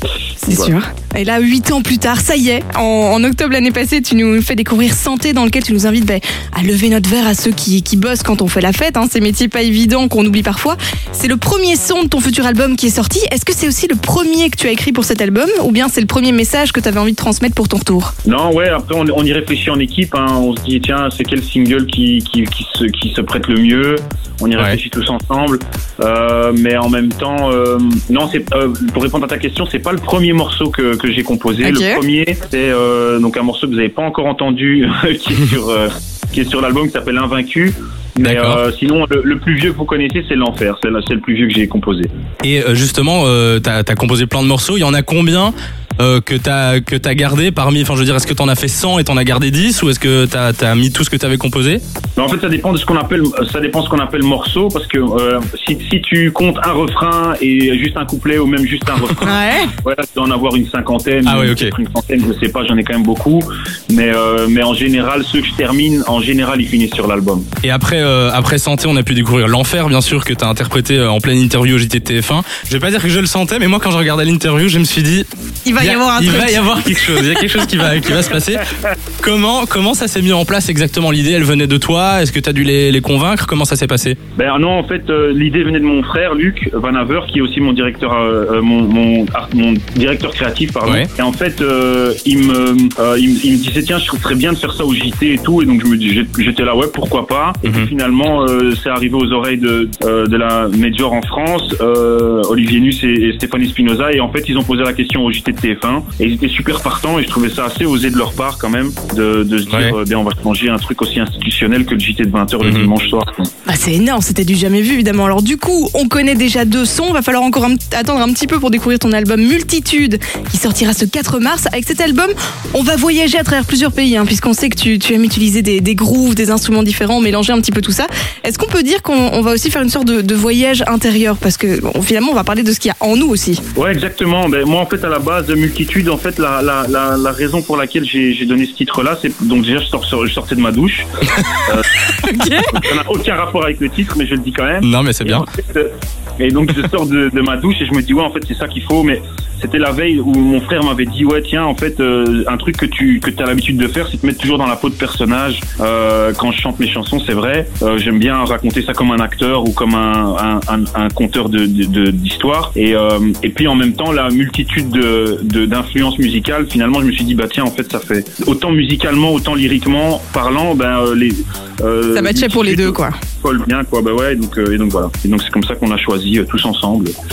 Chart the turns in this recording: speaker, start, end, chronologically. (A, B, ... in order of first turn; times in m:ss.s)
0:00.4-0:00.7 A
0:00.4-0:18.1 B
0:18.2-0:42.1 A
0:31.6-0:32.0 B
0:38.2-0:38.6 C
0:42.4-0:51.8 C
0:52.2-1:07.5 A
0:59.2-0:59.7 B
1:01.2-1:01.7 C
1:07.6-1:15.3 C
1:15.6-1:17.4 B
1:15.8-1:18.6 C
1:19.2-1:24.2 C
1:24.4-1:53.5 A
1:37.6-1:37.9 C
1:49.7-1:49.9 C
1:52.6-1:52.9 C
1:53.7-2:13.6 B
2:13.7-2:21.9 A
2:22.2-2:22.8 B
2:22.7-2:57.1 A
2:24.8-2:25.4 C
2:52.1-2:53.2 B